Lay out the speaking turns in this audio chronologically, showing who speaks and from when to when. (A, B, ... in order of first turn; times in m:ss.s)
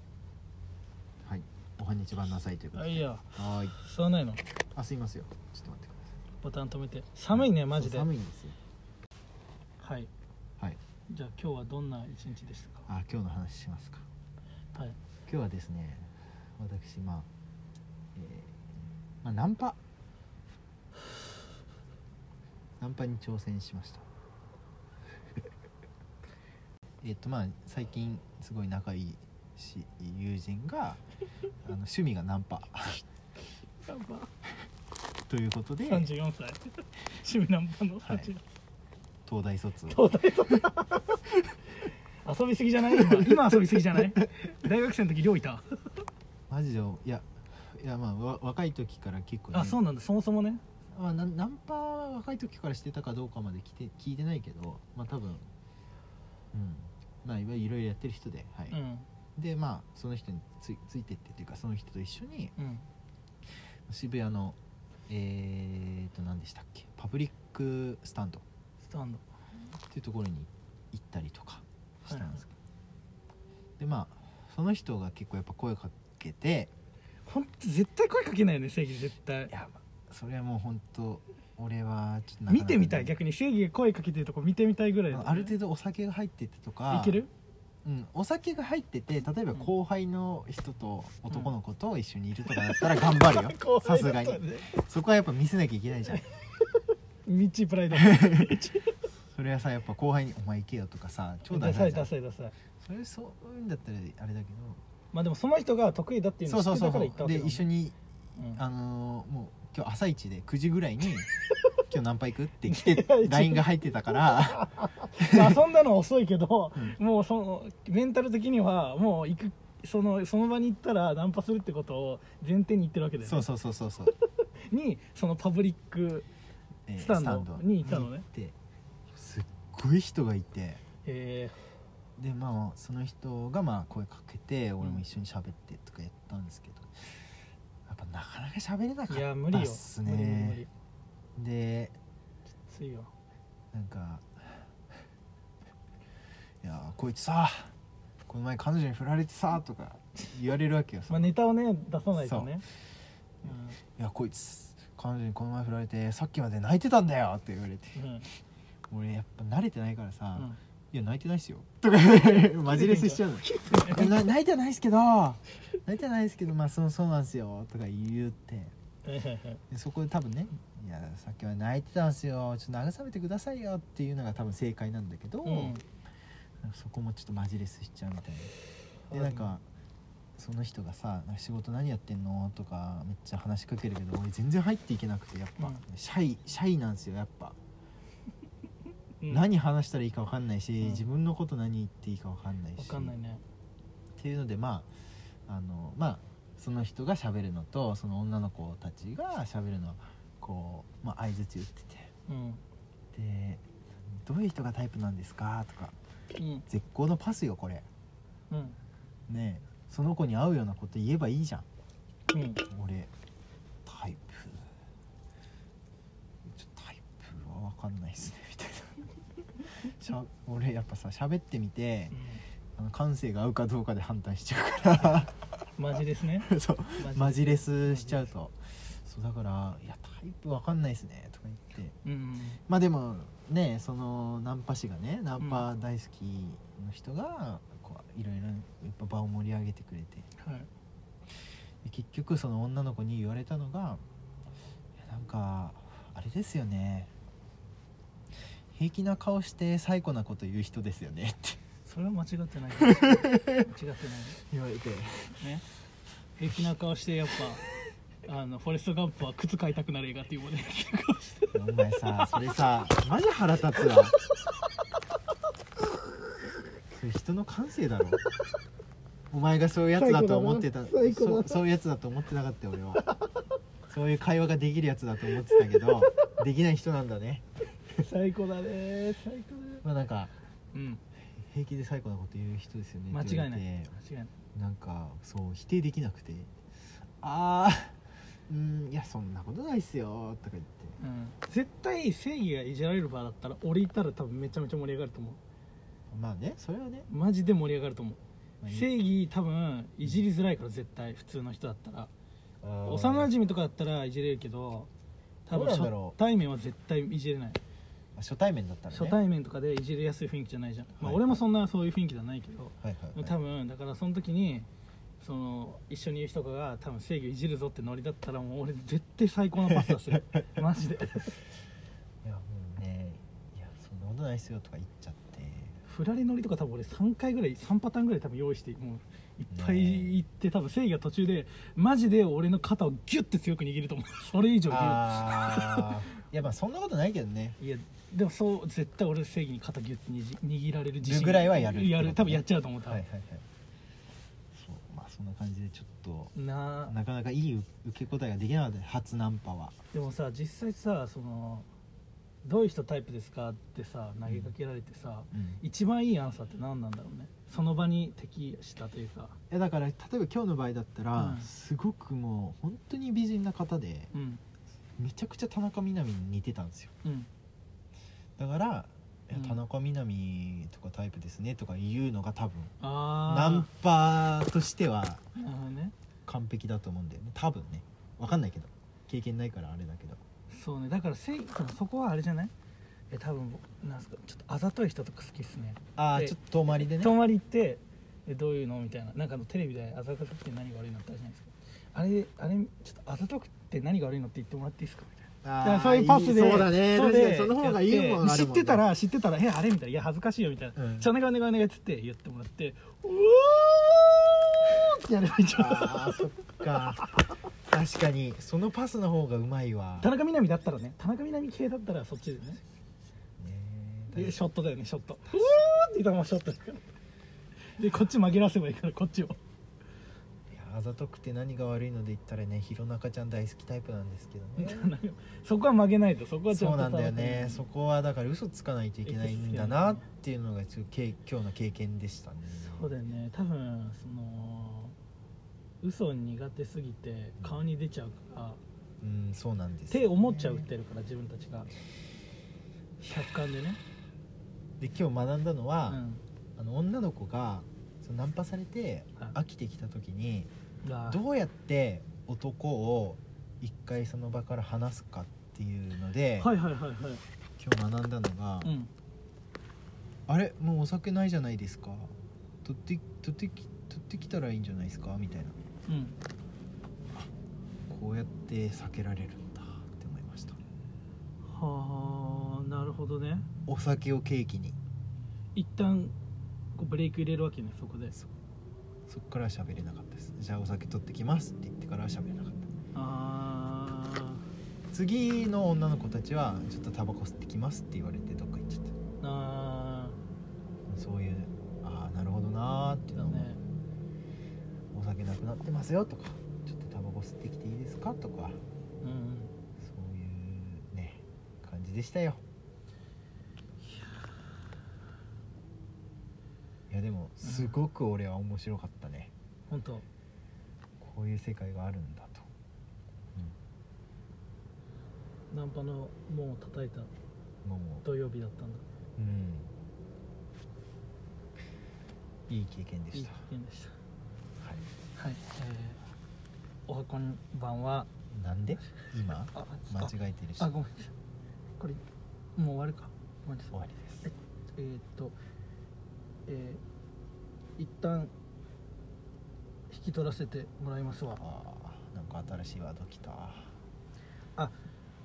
0:01.2-0:03.8 A
0:02.7-0:04.4 B
0:04.7-0:06.1 A
0:06.4-0:08.1 B
0:07.3-0:08.6 A
0:09.8-0:10.1 B
0:11.1-0:12.9 B
0:12.9-0:14.0 A
0:15.2-0:17.3 A
0:18.1-0:18.7 A
0:19.2-0:19.8 A
0:22.8-0:24.0 A
0:27.0-0:31.0 A
0:31.6-0:33.0 A
0:33.8-0:34.3 B
0:35.3-0:36.1 A
0:35.8-0:38.4 B
0:38.0-0:38.3 A
0:39.2-0:40.0 A
0:39.9-0:41.4 B
0:42.2-0:45.6 B
0:42.9-0:44.2 A
0:46.5-0:49.8 A
0:49.5-0:50.6 B
0:50.9-0:55.5 A
0:56.5-0:58.8 A
0:58.7-0:59.1 B
0:59.4-1:02.5 A
1:02.6-1:02.8 B
1:03.9-1:04.6 A
1:05.1-1:08.4 A
1:08.8-1:09.2 B
1:09.9-1:12.5 A
1:12.1-1:12.3 B
1:13.8-1:16.7 A
1:17.2-1:19.5 B
1:19.5-1:23.1 A
1:22.5-1:25.5 B
1:25.1-1:27.2 A
1:26.9-1:27.3 B
1:27.8-1:36.3 A
1:32.6-1:34.7 B
1:37.2-1:38.9 B
1:37.9-1:38.7 A
1:39.2-1:42.1 A
1:41.5-1:42.5 B
1:42.8-1:44.8 A
1:45.1-1:47.7 B
1:46.4-1:51.3 A
1:48.4-1:48.6 B
1:51.9-1:55.6 A
1:52.7-1:53.6 B
1:54.6-2:03.4 B
2:03.2-2:04.1 A
2:04.4-2:06.3 B
2:06.9-2:08.6 A
2:07.0-2:08.2 B
2:09.1-2:10.8 A
2:11.0-2:11.6 B
2:12.2-2:17.2 A
2:17.8-2:20.6 A
2:19.1-2:20.7 B
2:21.4-2:22.0 A
2:22.7-2:23.1 B
2:23.7-2:24.7 A
2:26.6-2:27.7 A
2:28.3-2:31.3 A
2:31.1-2:32.6 B
2:32.2-2:32.6 A
2:33.4-2:33.8 B
2:33.4-2:38.3 A
2:37.9-2:38.3 B
2:38.9-2:48.7 A
2:42.7-2:44.2 B
2:49.0-2:49.6 B
2:49.7-2:55.7 A
2:55.4-2:55.8 B
2:56.6-2:58.5 A
2:59.1-2:59.5 B
2:59.1-2:59.6 A
3:00.4-3:07.6 A
3:05.6-3:05.8 B
3:09.3-3:13.1 A
3:10.8-3:11.0 B
3:12.8-3:13.4 B
3:14.2-3:14.9 A
3:15.5-3:22.1 A
3:22.3-3:22.6 B
3:23.1-3:26.0 A
3:26.4-3:26.6 B
3:26.7-3:27.8 A
3:28.5-3:28.8 B
3:29.3-3:31.7 A
3:32.3-3:32.6 B
3:32.7-3:33.1 A
3:33.8-3:34.7 A
3:36.4-3:39.1 A
3:39.8-3:42.2 A
3:42.1-3:42.4 B
3:42.8-3:45.3 A
3:45.0-3:48.3 B
3:46.4-3:52.0 A
3:52.0-3:52.6 B
3:52.7-4:00.3 A
3:55.4-3:55.7 B
4:00.4-4:00.7 B
4:01.8-4:04.0 A
4:05.0-4:07.1 A
4:08.7-4:11.6 A
4:11.8-4:14.4 B
4:12.8-4:13.7 A
4:14.4-4:15.4 A
4:15.4-4:15.6 B
4:16.4-4:17.6 B
4:18.2-4:21.6 B
4:21.5-4:24.2 A
4:26.9-4:28.2 A
4:29.3-4:33.0 A
4:29.9-4:31.6 B
4:33.1-4:33.4 B
4:33.9-4:37.4 A
4:35.5-4:36.3 B
4:37.9-4:39.8 B
4:39.8-4:40.3 A
4:40.7-4:41.0 B
4:41.3-4:44.0 A
4:43.1-4:44.3 B
4:44.5-4:46.5 A
4:47.2-4:51.0 A
4:51.0-4:55.4 B
4:56.1-4:57.1 A
4:57.1-5:02.1 B
4:58.6-4:58.9 A
5:02.6-5:03.3 A
5:02.8-5:04.9 B
5:05.4-5:06.2 A
5:05.5-5:07.6 B
5:08.2-5:09.2 A
5:08.9-5:14.7 B
5:11.0-5:11.4 A
5:12.8-5:13.4 A
5:15.2-5:21.4 B
5:22.2-5:25.8 A
5:25.8-5:35.9 B
5:29.5-5:30.2 A
5:34.7-5:37.6 A
5:37.6-5:43.0 B
5:41.0-5:43.4 A
5:44.5-5:46.3 A
5:46.3-5:46.9 B
5:46.9-5:49.8 A
5:49.9-5:51.7 B
5:52.4-5:59.4 B
5:54.2-5:54.5 A
5:55.3-5:55.6 A
5:59.5-6:04.1 A
6:01.2-6:01.5 B
6:04.1-6:04.4 B
6:05.0-6:06.9 A
6:07.0-6:07.3 B
6:08.4-6:15.2 A
6:09.3-6:09.6 B
6:12.8-6:13.7 B
6:15.4-6:15.9 B
6:16.2-6:20.2 A
6:20.5-6:22.5 B
6:23.1-6:47.2 B
6:26.0-6:27.2 A
6:35.4-6:38.9 A
6:40.8-6:41.1 A
6:45.5-6:47.0 A
6:47.7-6:50.1 A
6:50.0-6:52.6 B
6:53.4-6:54.4 A
6:54.1-6:56.9 B
6:57.7-6:59.4 B
7:00.5-7:04.9 A
7:04.6-7:07.6 B
7:06.5-7:12.9 A
7:09.0-7:10.0 B
7:12.5-7:15.0 B
7:15.8-7:18.6 B
7:19.0-7:20.7 A
7:19.9-7:21.7 B
7:23.0-7:23.8 B
7:24.8-7:26.0 A
7:25.9-7:26.2 B
7:26.6-7:30.5 A
7:30.8-7:31.2 B
7:31.1-7:36.5 A
7:36.4-7:37.2 B
7:37.6-7:38.7 A
7:38.6-7:38.9 B
7:40.3-7:42.1 A
7:42.6-7:45.6 A
7:45.9-7:46.1 B
7:47.9-7:50.6 A
7:51.4-7:53.4 B
7:53.6-7:54.8 A
7:55.6-7:56.1 B
7:56.7-7:58.1 B
7:59.1-8:02.7 A
8:02.9-8:04.5 B
8:04.9-8:08.9 A
8:09.2-8:10.2 B
8:10.9-8:13.5 A
8:13.1-8:13.6 B
8:14.9-8:18.6 A
8:19.0-8:19.5 B
8:19.8-8:22.4 A
8:26.9-8:29.3 A
8:27.4-8:27.8 B
8:29.7-8:30.0 B
8:31.0-8:32.5 A
8:35.5-8:37.1 B
8:37.6-8:38.0 A
8:38.0-8:38.8 B
8:39.2-8:39.7 A
8:42.5-8:43.4 A
8:43.1-8:43.9 B
8:44.6-8:44.9 A
8:45.2-8:46.0 B
8:46.9-8:48.1 B
8:48.3-8:50.7 A
8:49.5-8:51.1 B
8:52.6-8:55.4 B
8:53.7-8:54.3 A
8:56.4-8:56.8 B
8:57.8-8:58.3 B
8:59.9-9:01.4 B
9:01.4-9:03.7 A